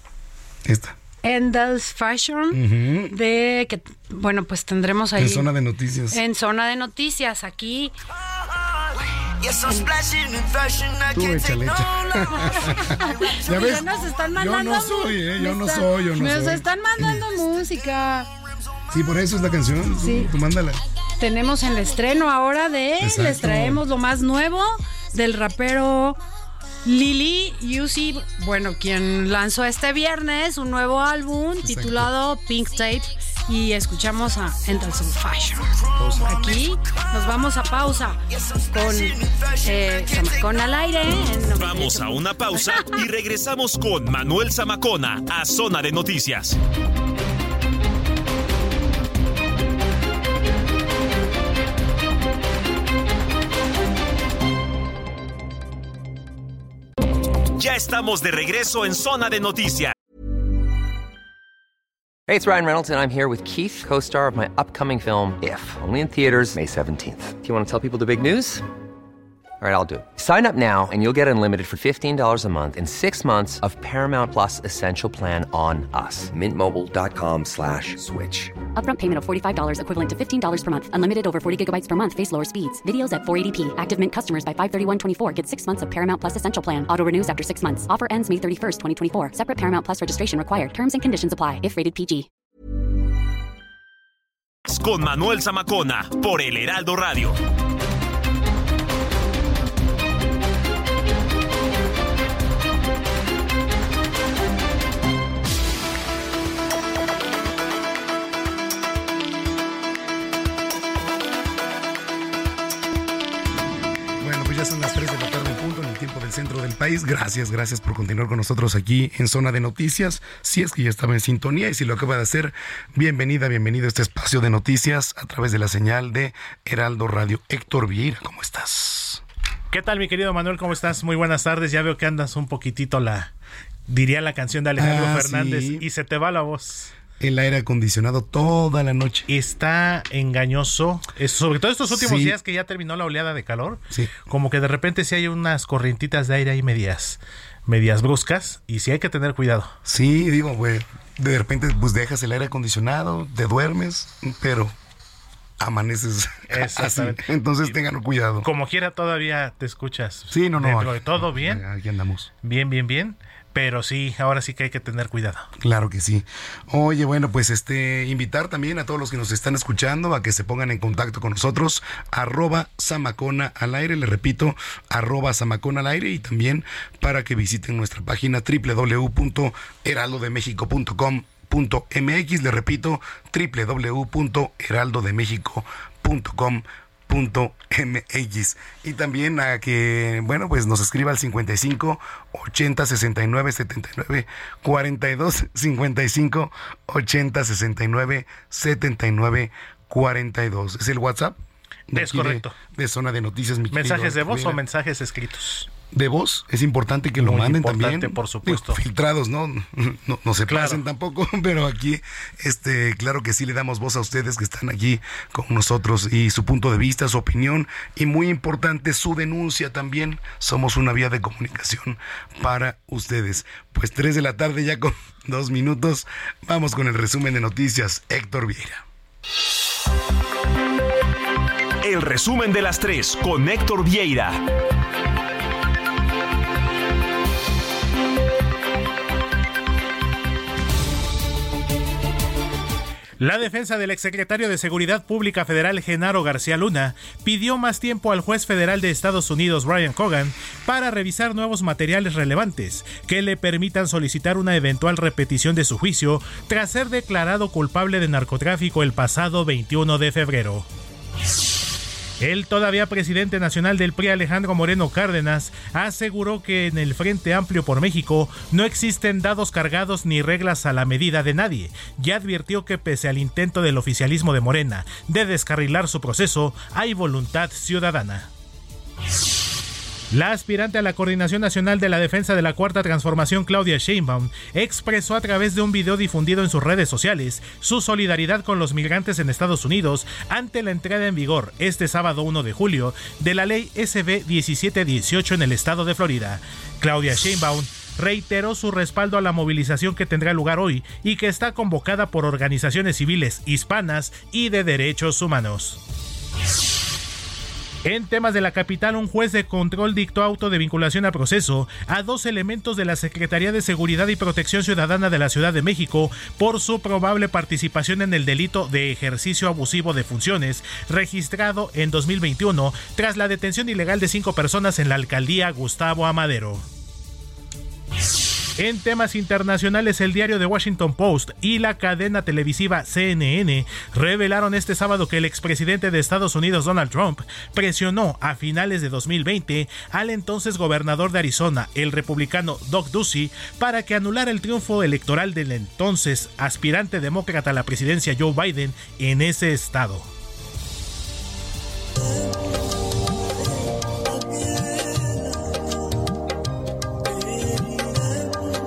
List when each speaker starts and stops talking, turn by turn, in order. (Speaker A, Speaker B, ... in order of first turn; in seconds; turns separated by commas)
Speaker A: 0.7-1.0, Speaker B: 1.2-5.5, Speaker A: 2.5-3.1, Speaker A: 5.2-6.2, Speaker B: 6.1-7.9, Speaker A: 11.1-12.8, Speaker B: 12.3-18.3, Speaker A: 13.5-17.2, Speaker A: 18.9-20.8, Speaker B: 20.0-20.3, Speaker B: 21.2-26.2, Speaker A: 23.0-23.8, Speaker B: 26.8-35.7, Speaker A: 31.6-32.1, Speaker A: 36.0-36.3, Speaker B: 36.2-42.9, Speaker C: 41.6-46.6, Speaker C: 57.6-59.9, Speaker D: 62.3-68.7, Speaker D: 69.6-78.6, Speaker E: 78.8-92.3, Speaker C: 94.7-97.4, Speaker A: 114.2-129.2, Speaker F: 129.7-133.3, Speaker F: 133.9-136.9, Speaker A: 134.8-135.8, Speaker A: 137.2-139.3, Speaker F: 139.3-149.7, Speaker A: 141.9-142.4, Speaker A: 149.8-154.7, Speaker A: 155.6-158.5, Speaker F: 156.5-157.8, Speaker F: 158.4-161.6, Speaker A: 160.3-162.3, Speaker F: 162.4-165.5, Speaker A: 165.6-201.4, Speaker A: 201.9-204.6, Speaker F: 201.9-202.6, Speaker F: 203.7-205.7, Speaker A: 205.9-228.8, Speaker F: 207.2-208.8, Speaker F: 210.5-210.8, Speaker C: 231.8-234.4, Speaker F: 243.2-260.7, Speaker F: 262.2-278.3, Speaker F: 280.1-305.8, Speaker F: 307.9-326.7, Speaker F: 328.6-350.1